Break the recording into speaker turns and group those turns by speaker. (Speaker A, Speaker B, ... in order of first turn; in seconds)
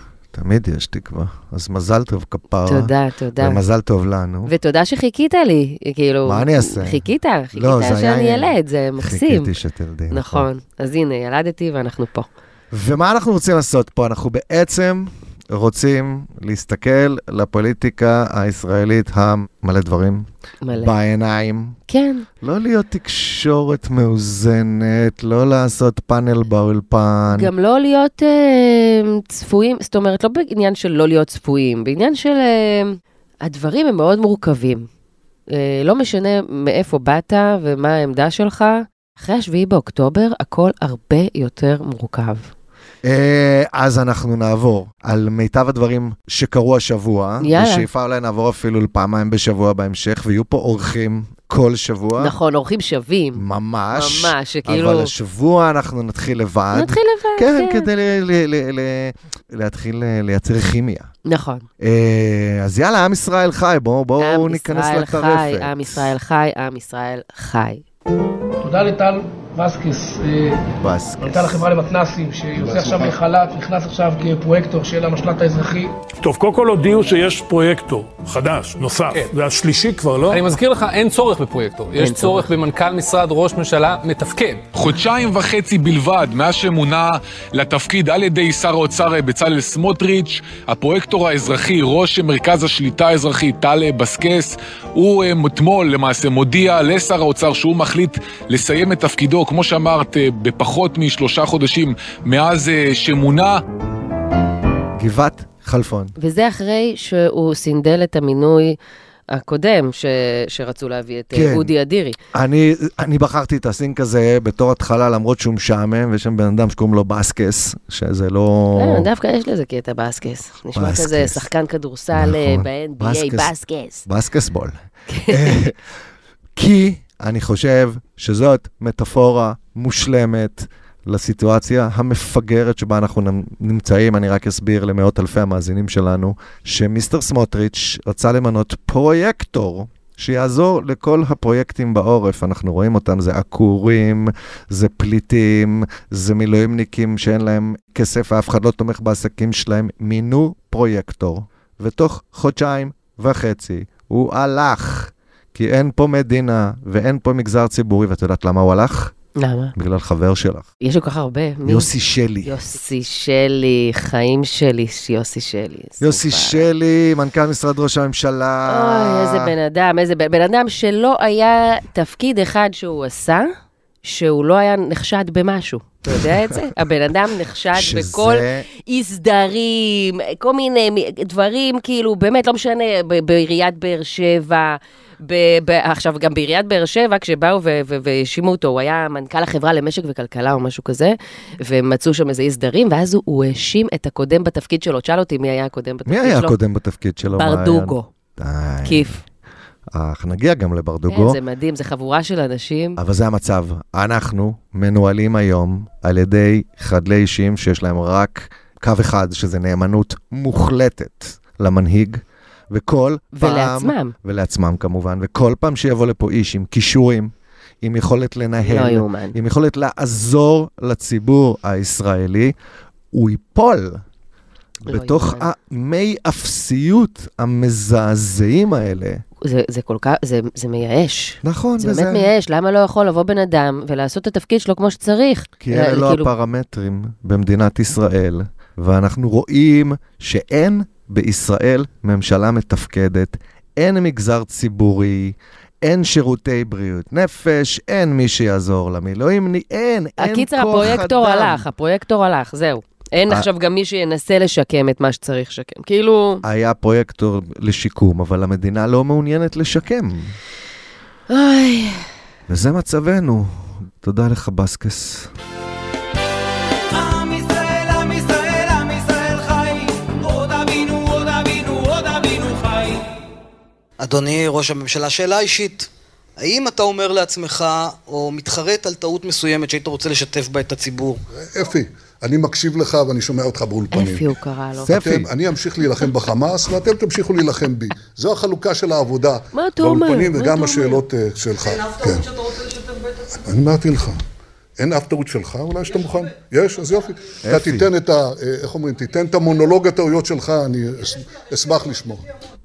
Speaker A: 0.3-4.5, 6.2-10.5, 12.7-21.8, 22.4-27.5, 43.0-52.3, 53.4-61.1, 61.8-66.1, 70.8-71.7, 105.0-106.2, 111.3-111.7, 112.3-119.1, 120.8-121.5, 122.1-123.5, 124.1-125.8, 126.5-159.1, 159.8-160.7, 161.7-162.6, 166.0-169.5, 176.1-176.7, 177.7-178.7, 196.1-199.2, 199.9-201.4, 203.0-222.6, 223.1-224.0, 224.8-229.2, 231.4-232.3, 235.6-251.7, 256.4-260.4, 262.5-265.3, 284.8-285.3, 297.4-297.9
Speaker B: 2.7-3.6, 4.5-9.5, 10.1-12.3, 20.6-20.9, 21.9-22.3, 27.3-34.9, 35.5-42.5, 47.4-47.9, 52.2-55.1, 56.7-57.9, 61.3-61.7, 64.2-67.8, 82.0-82.5, 106.2-108.8, 109.3-112.2, 118.8-124.1, 125.1-125.7, 159.4-159.7, 160.8-161.9, 162.4-166.7, 168.7-173.5, 174.0-196.5, 197.3-198.1, 198.8-199.2, 201.1-203.0, 213.3-214.1, 218.6-219.4, 224.9-225.5, 229.4-236.3, 250.2-256.4, 261.3-262.1, 283.9-284.9, 289.5-291.0
Speaker C: 68.6-70.7, 71.2-76.0
Speaker D: 72.6-73.2, 281.5-284.3, 284.9-292.7, 293.4-294.2, 294.8-302.3
Speaker E: 76.2-80.4
Speaker F: 80.3-84.7
Speaker G: 84.8-103.6
Speaker H: 266.9-273.1
Speaker I: 274.0-281.2